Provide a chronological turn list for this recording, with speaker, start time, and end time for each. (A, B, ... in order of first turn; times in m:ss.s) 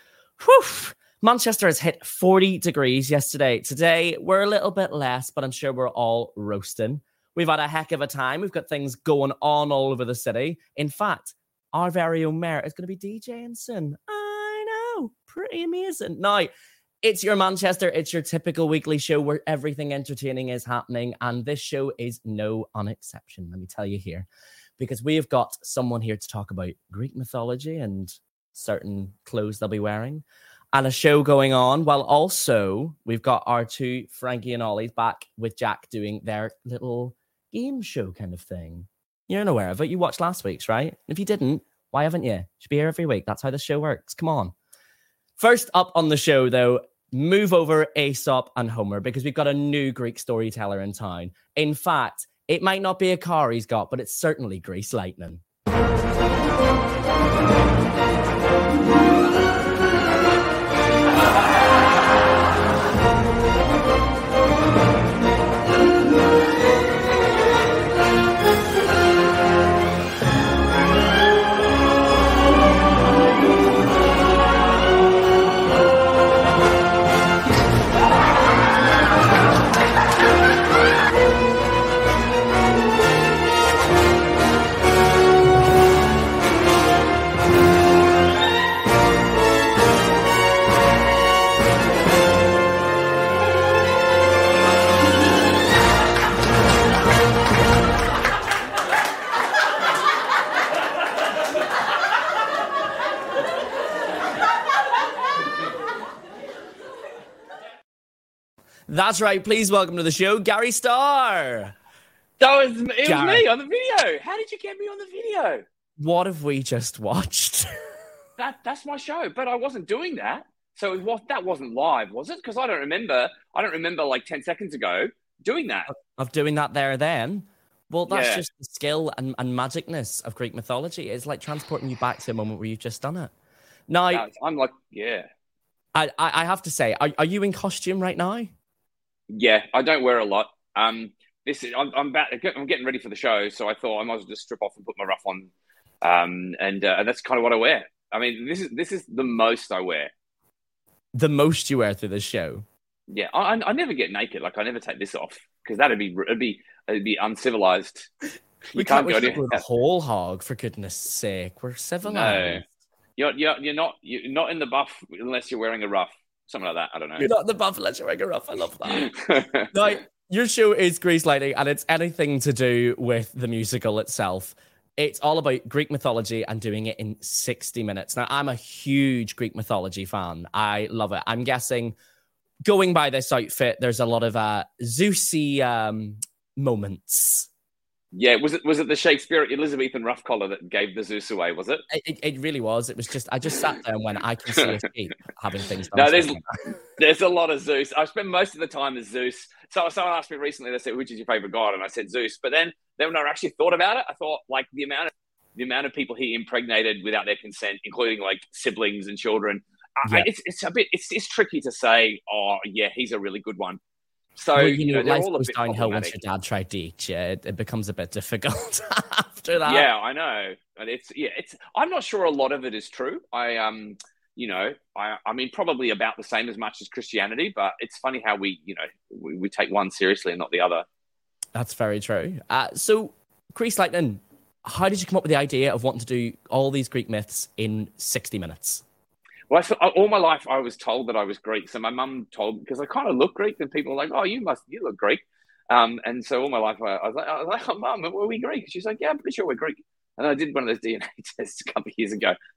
0:00.4-0:16.5 A
0:17.0-0:24.3 A
0:24.8-0:44.5 A
0:45.4-0:55.4 A
1:48.9-1:51.7 A
1:52.4-1:55.6 B
1:53.0-1:53.5 A
1:56.0-1:57.8 A
1:58.4-2:05.9 B
2:05.9-2:13.3 A
2:08.1-2:08.4 B
2:13.9-2:14.2 A
2:14.1-2:15.3 B
2:16.0-2:18.5 A
2:19.3-2:25.5 B
2:26.0-2:30.1 B
2:31.1-2:32.6 A
2:33.1-2:38.1 B
2:38.8-2:39.6 B
2:38.8-2:42.6 A
2:42.1-2:42.6 B
2:43.2-2:47.3 B
2:47.2-2:49.1 A
2:48.9-2:49.7 B
2:49.7-3:02.0 A
3:02.6-3:07.5 A
3:08.1-3:11.8 B
3:11.9-3:16.6 A
3:15.9-3:16.4 B
3:17.0-3:33.8 B
3:34.4-3:36.2 B
3:34.6-3:39.9 A
3:39.6-3:50.8 B
3:51.6-3:58.8 A
3:59.5-4:12.4 B